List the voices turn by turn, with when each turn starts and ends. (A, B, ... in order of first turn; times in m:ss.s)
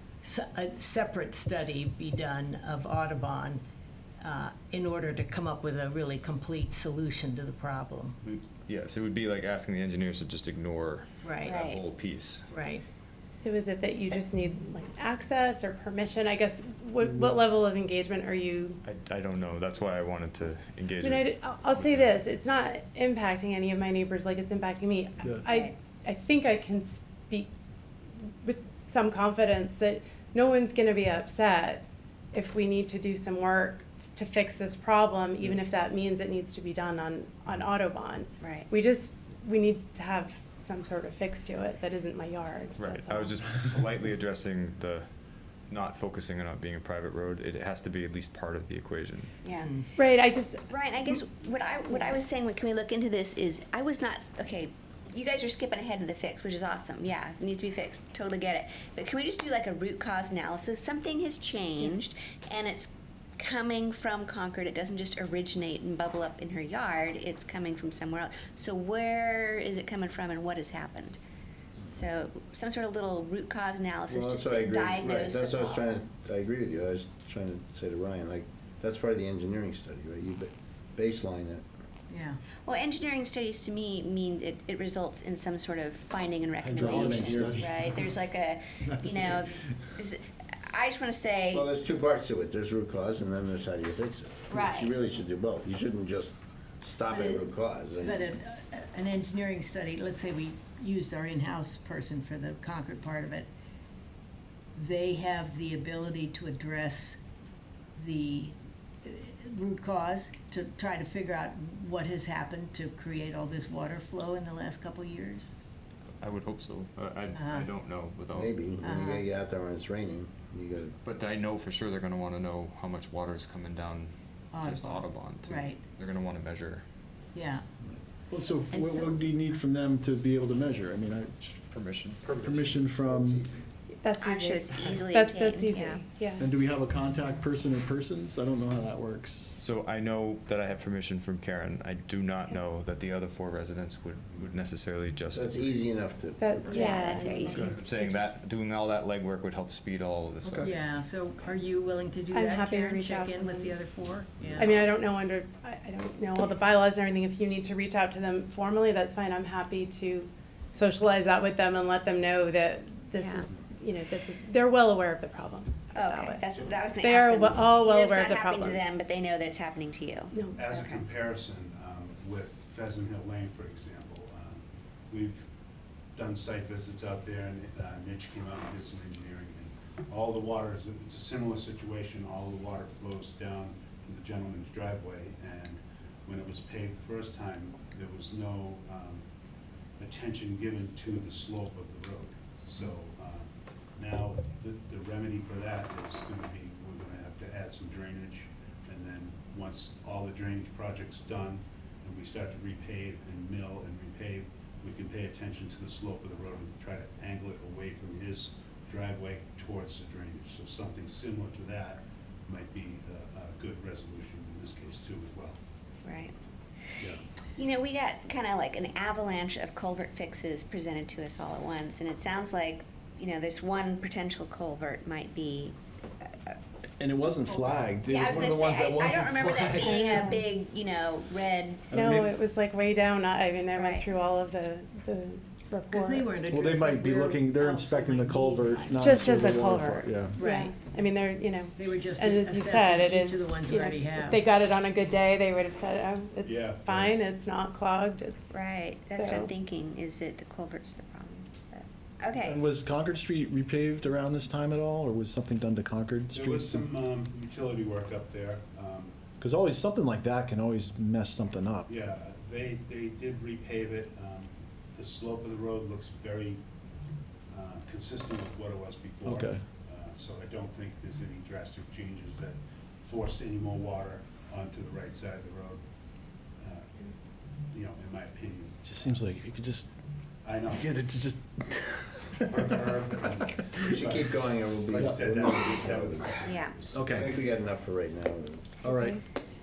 0:00.2-0:03.6 A
0:04.2-0:08.2 A
0:08.2-0:12.4 B
0:11.2-0:11.7 A
0:11.4-0:11.8 C
0:12.5-0:12.8 A
0:13.3-0:18.8 D
0:18.8-0:22.1 B
0:21.0-0:27.5 D
0:25.4-0:25.7 C
0:28.3-0:43.4 D
0:38.4-0:38.7 C
0:42.8-0:49.3 B
0:49.4-0:49.8 C
0:49.6-0:49.8 A
0:50.0-0:50.6 D
0:50.7-1:11.2 C
1:11.9-1:16.0 C
1:14.1-1:21.6 E
1:22.1-1:22.4 A
1:22.6-1:31.7 C
1:26.6-1:28.1 F
1:27.2-1:27.6 E
1:28.8-1:29.2 F
1:31.5-1:38.3 E
1:34.5-1:35.0 C
1:37.1-1:37.5 A
1:38.0-1:43.5 A
1:44.7-1:47.2 A
1:48.0-1:55.5 A
1:56.2-1:58.5 B
1:57.3-1:57.7 A
1:58.3-2:01.0 E
1:58.8-1:59.3 A
2:01.0-2:06.9 B
2:04.5-2:05.8 A
2:07.3-2:07.6 A
2:07.8-2:11.8 F
2:08.7-2:09.1 A
2:11.7-2:12.4 B
2:12.2-2:13.6 E
2:12.4-2:13.4 F
2:13.9-2:16.4 D
2:14.2-2:16.0 C
2:16.4-2:19.5 F
2:19.6-2:25.8 B
2:25.3-2:26.9 E
2:26.4-2:27.7 D
2:26.7-2:28.3 C
2:27.6-2:30.7 B
2:30.6-2:34.8 A
2:32.3-2:33.7 D
2:34.6-2:46.4 D
2:45.9-2:51.0 C
2:46.6-2:46.9 G
2:47.0-2:48.8 D
2:50.3-2:50.7 D
2:50.5-2:55.4 G
2:56.1-3:09.2 G
3:10.0-3:35.6 G
3:36.0-3:36.3 C
3:37.6-3:46.6 C
3:47.0-3:50.0 F
3:48.0-3:52.0 C
3:49.8-3:50.4 D
3:51.9-3:52.3 F
3:51.9-3:56.4 D
3:53.7-3:54.1 C
3:55.9-3:59.0 A
3:56.4-4:00.4 F
3:59.0-4:09.5 D
4:00.4-4:01.0 A
4:01.7-4:04.4 A
4:06.4-4:07.1 G
4:08.5-4:12.6 C
4:12.4-4:16.9 F
4:16.3-4:19.2 G
4:19.4-4:21.9 F
4:21.8-4:26.6 G
4:27.5-4:35.8 G
4:29.2-4:29.6 F
4:36.6-4:36.9 G
4:37.7-4:39.1 G
4:38.8-4:39.9 F
4:40.4-4:40.9 G
4:40.7-4:42.9 F
4:42.5-4:47.1 G
4:43.6-4:43.9 F
4:43.9-4:46.5 E
4:45.0-4:45.3 F
4:46.4-4:46.8 C
4:46.9-4:47.3 F
4:47.1-4:48.8 E
4:48.8-4:49.2 F